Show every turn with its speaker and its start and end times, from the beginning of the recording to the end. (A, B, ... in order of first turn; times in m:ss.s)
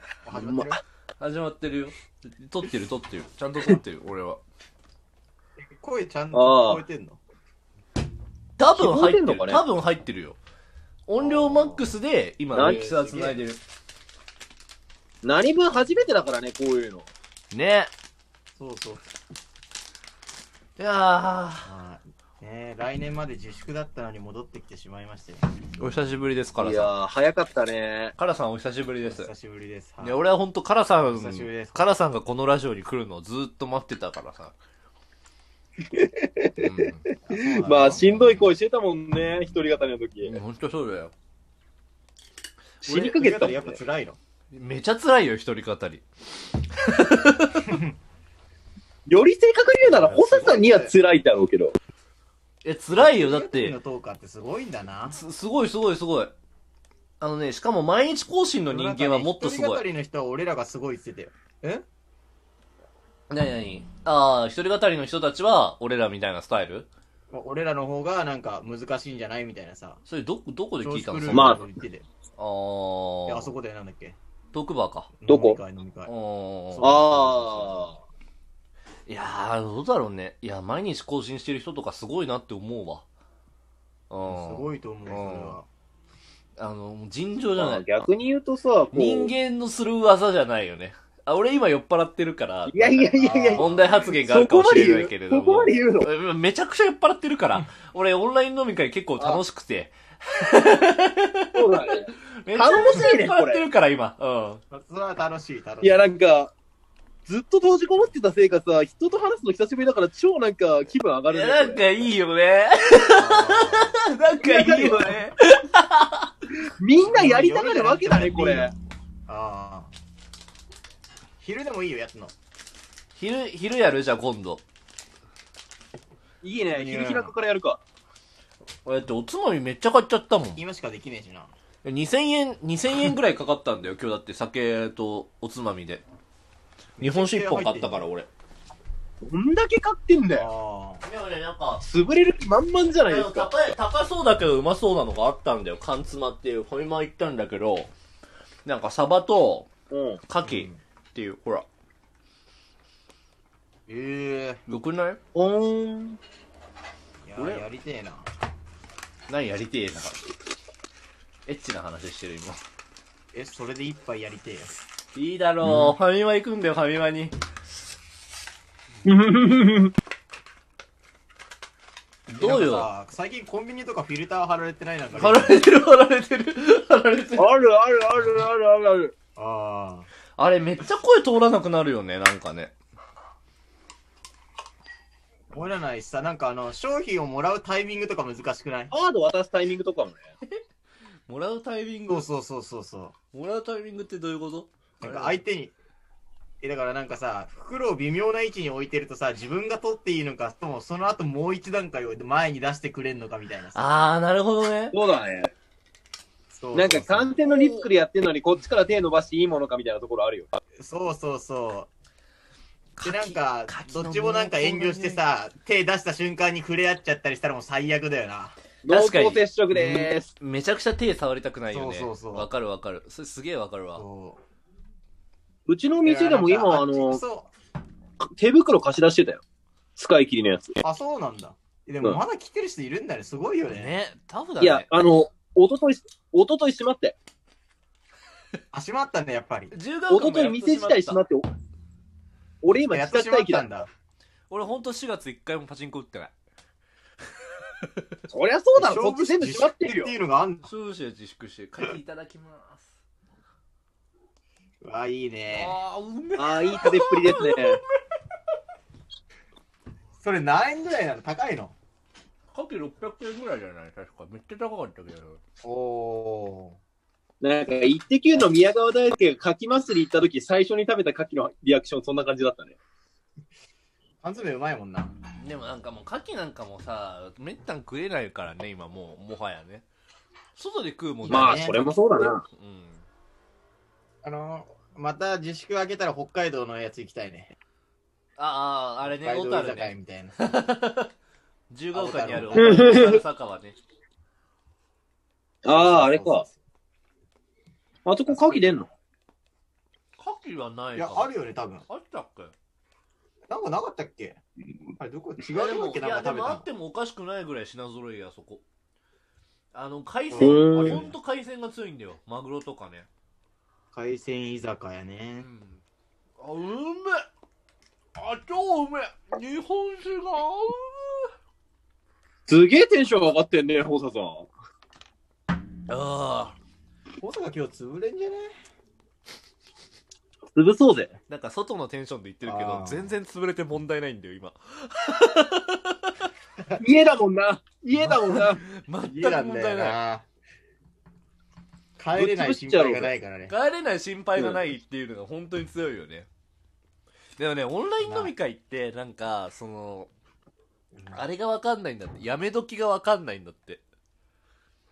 0:00.2-0:00.8 A
0:00.3-0:00.8 B
0:01.2-0:04.4 C
0:05.6-0:07.2 A
0:06.3-0:06.8 B
0:08.6-0:10.4 C
0:08.7-0:09.6 B
0:11.1-0:13.6 C
0:11.2-0:11.9 A
0:12.5-0:13.4 B
0:15.2-0:17.1 B
0:17.5-0:17.9 C
0:18.6-0:19.1 A
0:20.8-0:21.7 C
0:21.6-0:25.4 A
0:25.8-0:26.9 C
0:26.6-0:28.1 B
0:28.2-0:29.3 C
0:29.0-0:30.2 A
0:30.0-0:34.5 C
0:31.0-0:31.8 A
0:35.9-0:40.4 B
0:36.6-0:37.0 C
0:37.3-0:38.1 A
0:40.2-0:41.1 C
0:42.8-0:43.8 B
0:42.8-0:44.2 A
0:44.5-0:47.8 C
0:49.1-0:51.7 B
0:49.9-0:50.1 C
0:49.9-0:50.9 A
0:52.6-0:53.8 C
0:52.9-0:55.2 A
0:55.1-0:56.3 C
0:57.2-0:59.8 C
0:58.7-1:01.8 A
1:03.3-1:06.9 C
1:07.3-1:10.0 A
1:10.0-1:11.6 C
1:10.8-1:12.0 A
1:11.3-1:11.6 B
1:12.4-1:13.5 C
1:13.3-1:14.2 A
1:14.5-1:15.1 C
1:15.2-1:16.1 A
1:15.3-1:15.6 B
1:16.1-1:17.0 C
1:16.7-1:17.8 A
1:16.8-1:18.0 B
1:19.1-1:23.0 C
1:24.1-1:25.6 C
1:24.2-1:25.7 A
1:26.6-1:28.1 C
1:27.6-1:29.3 B
1:28.9-1:41.8 C
1:32.7-1:36.1 B
1:33.2-1:34.0 A
1:41.5-1:43.6 B
1:42.4-1:44.6 C
1:44.7-1:46.0 A
1:45.8-1:46.5 B
1:47.2-1:51.8 B
1:51.3-1:56.3 C
1:53.0-1:54.0 A
1:54.4-1:55.2 B
1:56.8-1:58.7 B
1:57.0-1:58.7 A
1:59.3-1:59.9 A
2:01.4-2:02.3 A
2:03.1-2:04.6 C
2:06.4-2:07.8 B
2:06.7-2:07.3 A
2:08.8-2:10.6 C
2:10.6-2:11.5 A
2:11.8-2:16.0 C
2:17.0-2:18.1 A
2:17.0-2:18.3 C
2:19.2-2:20.5 B
2:20.3-2:21.0 A
2:21.0-2:21.8 C
2:21.8-2:23.5 B
2:23.1-2:27.9 C
2:28.6-2:29.7 C
2:29.9-2:30.2 B
2:30.3-2:31.6 C
2:30.4-2:30.8 A
2:33.9-2:34.6 A
2:34.7-2:35.2 C
2:35.3-2:36.2 B
2:37.2-2:38.3 A
2:37.4-2:37.6 C
2:39.3-2:40.2 C
2:41.4-2:42.6 C
2:43.3-2:44.7 A
2:45.1-2:47.3 C
2:49.0-2:49.9 B
2:52.3-2:52.9 C
2:52.4-2:55.6 A
2:55.1-2:57.5 C
2:57.4-2:59.1 B
2:59.4-3:00.1 A
3:00.4-3:02.7 C
3:05.5-3:08.9 A
3:08.9-3:10.2 B
3:11.3-3:12.3 C
3:12.1-3:13.1 A
3:13.3-3:15.4 C
3:15.0-3:15.7 A
3:16.6-3:23.8 A
3:23.7-3:25.0 C
3:24.9-3:25.5 B
3:26.5-3:27.4 A
3:26.7-3:30.6 B
3:27.4-3:27.9 C
3:30.8-3:31.9 A
3:33.0-3:35.2 C
3:33.0-3:38.6 A
3:38.8-3:40.3 B
3:38.9-3:44.0 C
3:41.7-3:42.5 A
3:43.9-3:44.4 A
3:45.7-3:47.2 B
3:46.0-3:47.5 A
3:48.2-3:49.4 B
3:50.0-3:50.8 B
3:50.8-3:54.0 A
3:53.7-3:54.9 C
3:54.6-3:57.2 B
3:58.7-3:59.7 A
3:59.7-4:01.2 C
4:00.1-4:01.4 B
4:02.6-4:03.7 B
4:02.9-4:03.9 A
4:04.5-4:06.3 C
4:08.3-4:10.1 B
4:08.7-4:10.7 A
4:10.6-4:12.9 C
4:14.8-4:15.8 A
4:15.5-4:17.8 C
4:16.4-4:17.8 B
4:20.2-4:21.8 A
4:22.5-4:25.4 C
4:25.6-4:26.8 A
4:27.4-4:32.8 B
4:34.2-4:35.1 A
4:35.4-4:39.8 C
4:40.6-4:41.9 C
4:41.2-4:41.8 A
4:41.3-4:42.4 B
4:42.4-4:43.0 C
4:44.2-4:47.5 A
4:48.4-4:51.1 C
4:49.0-4:50.4 A
4:51.7-4:53.8 C
4:51.9-4:53.0 A
4:52.6-4:53.2 B
4:55.6-4:56.4 B
4:55.6-4:56.6 A
4:58.0-4:58.9 B
4:58.3-4:58.8 A
5:00.2-5:01.3 C
5:00.9-5:01.8 A
5:01.9-5:02.5 C
5:03.5-5:04.4 A
5:05.0-5:06.7 A
5:05.5-5:08.6 C
5:09.7-5:13.1 C
5:10.3-5:11.1 A
5:10.4-5:11.0 B
5:13.9-5:15.5 A
5:15.4-5:15.8 C
5:16.4-5:17.2 C
5:18.2-5:21.3 C
5:22.5-5:24.5 B
5:25.9-5:26.6 C
5:27.2-5:28.5 A
5:30.5-5:31.1 B
5:31.3-5:36.3 C
5:32.4-5:33.1 A
5:36.8-5:38.6 B
5:37.9-5:38.2 A
5:38.3-5:40.0 C
5:39.0-5:40.3 A
5:42.0-5:43.5 A
5:42.2-5:43.1 B
5:43.5-5:46.3 C
5:47.4-5:50.1 C
5:48.0-5:48.3 A
5:50.9-5:51.3 A
5:51.1-5:53.8 C